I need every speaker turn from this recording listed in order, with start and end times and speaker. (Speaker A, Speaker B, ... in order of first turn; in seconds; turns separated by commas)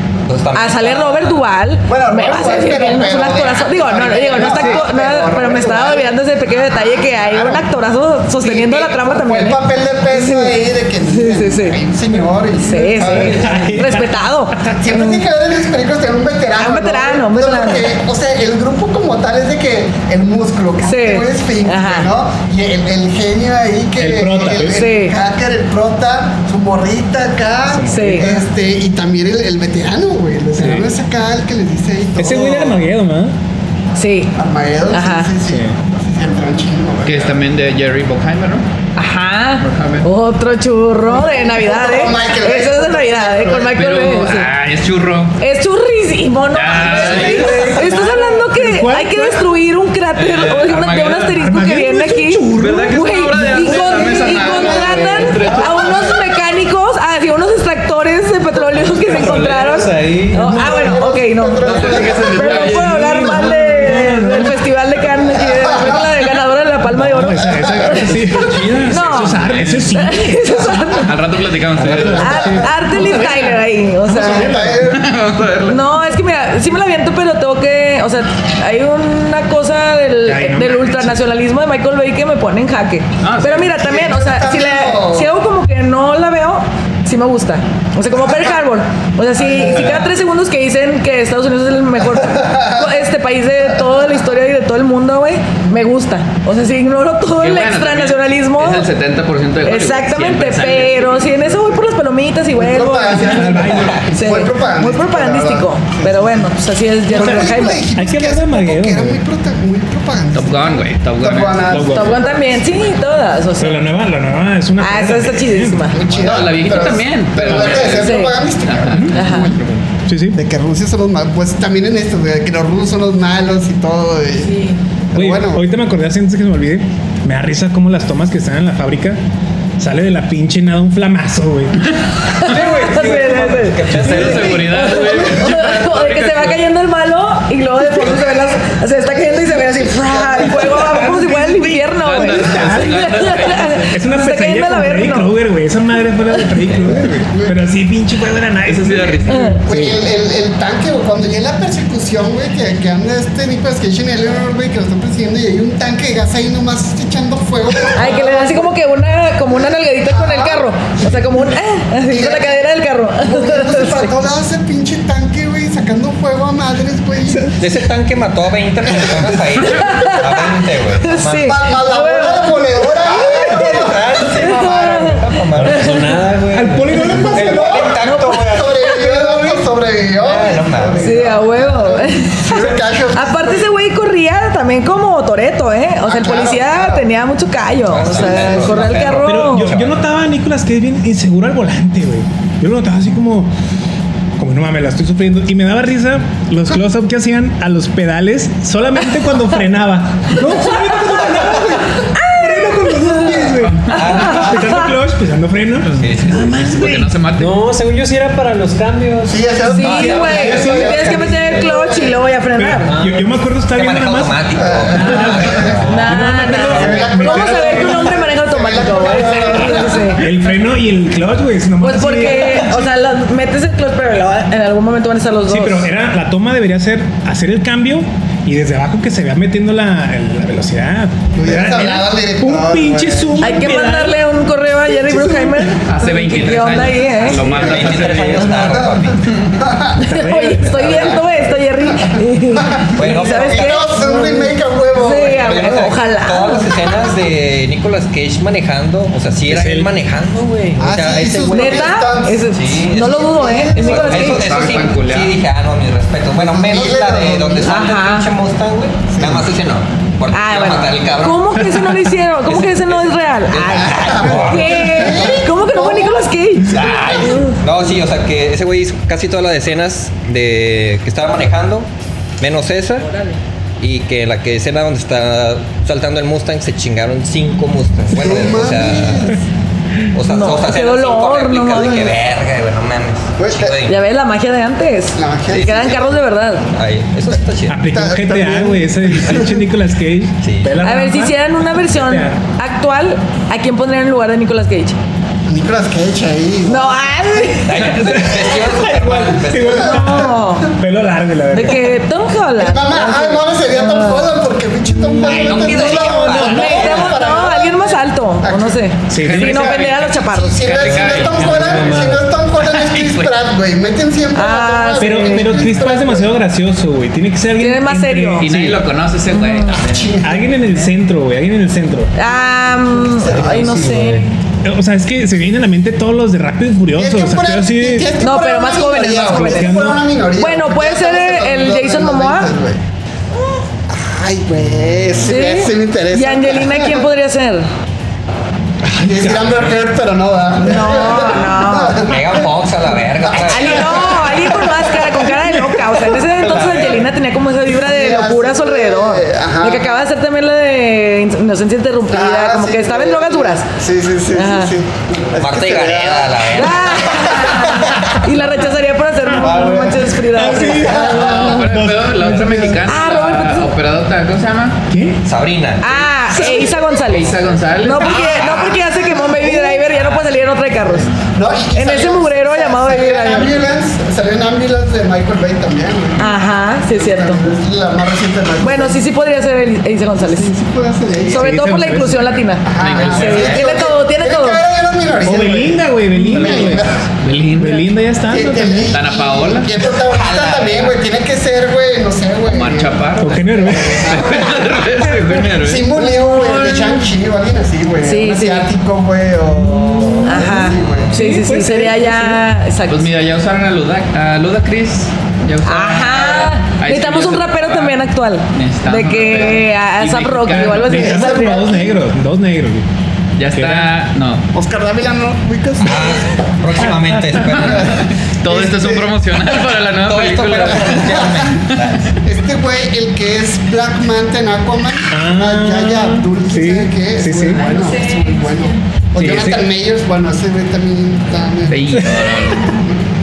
Speaker A: 0.3-1.4, Speaker B: 0.5-10.5, Speaker C: 1.9-7.7, Speaker C: 8.4-13.6, Speaker B: 11.1-11.8, Speaker B: 12.6-15.2, Speaker D: 13.0-14.2, Speaker C: 14.6-32.9, Speaker B: 16.6-17.9, Speaker B: 20.8-22.1, Speaker D: 24.0-24.9, Speaker B: 24.7-25.2, Speaker D: 27.7-28.4, Speaker B: 27.9-28.3, Speaker D: 30.6-30.9, Speaker D: 32.2-33.3, Speaker B: 34.0-34.3, Speaker C: 34.4-37.4, Speaker B: 34.9-35.3, Speaker D: 35.5-35.8, Speaker E: 37.0-38.6, Speaker B: 39.0-44.5, Speaker E: 39.6-40.1, Speaker C: 41.0-43.8, Speaker E: 43.8-45.4, Speaker B: 45.4-71.2, Speaker E: 46.5-47.8, Speaker C: 46.9-47.6, Speaker D: 47.0-49.5, Speaker E: 50.2-51.4, Speaker D: 51.4-54.1, Speaker E: 52.6-56.1, Speaker C: 54.2-56.1, Speaker F: 58.7-60.6, Speaker D: 60.3-61.0, Speaker C: 60.6-62.7, Speaker E: 61.6-63.5, Speaker D: 62.5-64.6, Speaker C: 65.3-66.2, Speaker D: 66.9-71.0, Speaker C: 67.4-68.1, Speaker E: 68.3-69.9, Speaker E: 71.0-73.5, Speaker D: 71.8-73.5, Speaker C: 72.1-72.6, Speaker B: 72.1-74.6, Speaker C: 74.1-75.1, Speaker D: 74.1-74.8, Speaker E: 74.7-75.8, Speaker B: 75.7-98.9, Speaker D: 80.2-81.2, Speaker E: 83.2-83.7, Speaker C: 83.7-85.3, Speaker C: 89.4-90.0, Speaker C: 92.2-92.9, Speaker E: 97.3-101.4, Speaker B: 99.6-107.8, Speaker C: 102.6-106.5, Speaker D: 103.2-104.1, Speaker C: 107.1-113.0, Speaker D: 107.1-109.2, Speaker E: 110.3-111.8, Speaker D: 111.7-112.2, Speaker B: 111.8-113.9, Speaker D: 113.6-116.0, Speaker B: 114.8-116.0, Speaker C: 115.9-119.7, Speaker E: 116.1-119.8, Speaker B: 117.8-118.4, Speaker D: 118.9-119.2, Speaker B: 119.1-119.5, Speaker D: 120.1-120.4, Speaker C: 120.3-124.5, Speaker B: 124.4-124.8, Speaker C: 125.1-125.6, Speaker D: 125.2-129.2, Speaker D: 129.8-134.4, Speaker B: 132.2-145.3, Speaker A: 132.5-134.8, Speaker E: 133.9-136.6, Speaker C: 139.2-141.2, Speaker D: 140.8-150.0, Speaker E: 142.0-143.8, Speaker C: 147.3-147.6, Speaker E: 148.7-149.5, Speaker B: 149.3-149.6, Speaker C: 149.7-158.7, Speaker B: 157.9-164.1, Speaker C: 160.0-161.3, Speaker C: 162.1-162.6, Speaker C: 163.2-167.6, Speaker A: 167.6-171.6, Speaker C: 168.9-169.5, Speaker B: 169.7-172.6, Speaker C: 171.4-174.8, Speaker A: 173.0-176.2, Speaker B: 174.3-175.2, Speaker F: 175.6-177.0, Speaker D: 176.5-177.6, Speaker B: 177.0-177.4, Speaker A: 177.1-179.3, Speaker C: 177.1-183.7, Speaker B: 178.0-179.5, Speaker A: 180.2-181.4, Speaker B: 181.0-189.7, Speaker C: 186.1-187.1, Speaker A: 187.9-190.0, Speaker C: 188.0-189.1, Speaker D: 189.2-193.5, Speaker D: 194.4-207.1, Speaker B: 200.6-201.0, Speaker B: 202.0-204.9, Speaker E: 203.6-204.0, Speaker A: 203.9-204.8, Speaker A: 205.9-206.6, Speaker E: 206.3-207.6, Speaker F: 207.4-209.4, Speaker C: 209.3-212.2, Speaker B: 209.7-212.9, Speaker A: 209.8-210.9, Speaker D: 210.2-211.3, Speaker D: 212.6-218.1, Speaker F: 212.9-213.3, Speaker A: 213.7-216.1, Speaker C: 214.6-215.8, Speaker B: 215.8-220.3, Speaker C: 216.6-220.2, Speaker D: 220.2-222.9, Speaker B: 221.8-225.9, Speaker D: 225.5-234.2, Speaker C: 231.3-233.4, Speaker B: 233.4-237.4, Speaker C: 235.0-235.8, Speaker E: 235.9-238.8, Speaker A: 237.4-239.3, Speaker C: 238.6-240.0, Speaker D: 240.0-241.2, Speaker B: 240.0-246.8, Speaker A: 240.7-241.4, Speaker C: 241.9-245.9, Speaker A: 242.9-243.9, Speaker A: 245.2-251.9, Speaker D: 249.5-249.9, Speaker C: 250.8-254.4, Speaker B: 251.5-254.4, Speaker A: 252.5-265.4, Speaker E: 254.0-255.4, Speaker C: 256.3-257.9, Speaker B: 257.7-258.3, Speaker C: 259.1-259.5, Speaker B: 260.3-267.6, Speaker C: 263.7-267.4, Speaker A: 266.7-271.9, Speaker A: 272.4-273.1, Speaker B: 273.1-273.4, Speaker A: 273.8-279.3, Speaker C: 278.1-279.4, Speaker A: 280.1-284.0, Speaker B: 280.3-282.1, Speaker C: 283.4-283.8, Speaker B: 283.9-286.7, Speaker C: 285.1-286.1, Speaker A: 285.5-286.1, Speaker A: 286.7-287.8, Speaker D: 287.7-292.4, Speaker C: 287.9-289.6, Speaker A: 290.4-290.8, Speaker B: 290.8-295.0, Speaker C: 295.5-297.0, Speaker B: 296.7-298.0, Speaker A: 297.6-300.0, Speaker D: 297.8-301.9, Speaker B: 299.8-300.7, Speaker B: 301.5-304.3, Speaker C: 302.6-308.8, Speaker A: 305.2-307.1, Speaker E: 305.3-305.8, Speaker D: 305.4-306.9, Speaker B: 306.4-310.7, Speaker D: 309.1-309.8, Speaker E: 309.1-312.1, Speaker C: 310.1-316.3, Speaker A: 310.9-311.7, Speaker F: 310.9-312.3, Speaker E: 312.6-313.4, Speaker B: 314.4-315.6, Speaker D: 315.0-318.8, Speaker B: 317.6-318.5, Speaker E: 318.4-320.1, Speaker B: 319.3-319.8, Speaker C: 319.7-320.6, Speaker D: 320.2-322.1, Speaker B: 322.2-324.4, Speaker C: 322.2-324.1, Speaker F: 323.3-324.3, Speaker D: 324.6-328.1, Speaker C: 326.9-332.8, Speaker B: 328.2-332.5, Speaker D: 329.3-330.0, Speaker C: 333.9-337.1, Speaker B: 335.3-337.7, Speaker D: 338.9-339.6, Speaker C: 339.0-342.5, Speaker B: 340.6-342.0, Speaker A: 342.0-344.1, Speaker C: 343.2-345.3, Speaker B: 343.4-353.7, Speaker A: 346.3-347.1, Speaker C: 347.7-349.9, Speaker C: 352.1-358.1, Speaker B: 354.3-354.7, Speaker A: 355.4-357.5, Speaker B: 356.5-361.6, Speaker D: 359.4-362.9, Speaker A: 359.4-360.1, Speaker C: 360.8-361.4, Speaker E: 361.0-364.8, Speaker B: 362.9-363.7, Speaker D: 364.9-365.2, Speaker A: 365.2-366.6, Speaker B: 365.8-371.1, Speaker C: 366.3-367.1, Speaker E: 367.0-368.2, Speaker A: 368.1-368.7, Speaker C: 368.2-369.9, Speaker C: 371.2-376.3, Speaker B: 371.7-373.6, Speaker B: 376.2-377.4, Speaker C: 376.9-379.0, Speaker B: 378.6-380.5, Speaker C: 380.2-381.5, Speaker D: 381.3-382.5, Speaker B: 381.3-384.6, Speaker C: 382.6-387.0, Speaker E: 382.8-383.6, Speaker A: 382.9-383.7, Speaker D: 385.2-386.9, Speaker E: 386.4-387.8, Speaker D: 387.5-388.9, Speaker C: 388.3-393.0, Speaker E: 388.9-389.7, Speaker A: 390.0-391.0, Speaker E: 392.5-396.1, Speaker D: 393.2-394.5, Speaker C: 393.6-394.7, Speaker C: 395.6-401.2, Speaker B: 396.5-396.8, Speaker B: 398.0-398.7, Speaker D: 399.6-402.4, Speaker B: 400.2-403.1, Speaker A: 400.8-401.2, Speaker E: 402.9-408.0, Speaker B: 405.7-411.7, Speaker E: 408.5-411.0, Speaker D: 410.7-412.9, Speaker C: 410.9-412.0, Speaker E: 413.4-414.4, Speaker D: 413.6-413.9, Speaker C: 414.5-416.2, Speaker A: 415.8-418.1, Speaker D: 416.9-417.4, Speaker E: 417.4-421.9, Speaker C: 417.8-419.1, Speaker A: 420.0-422.1, Speaker C: 421.0-421.5, Speaker C: 422.2-433.0, Speaker D: 425.1-427.6, Speaker B: 427.6-428.7, Speaker D: 429.2-429.6, Speaker E: 431.7-432.8, Speaker D: 431.9-432.2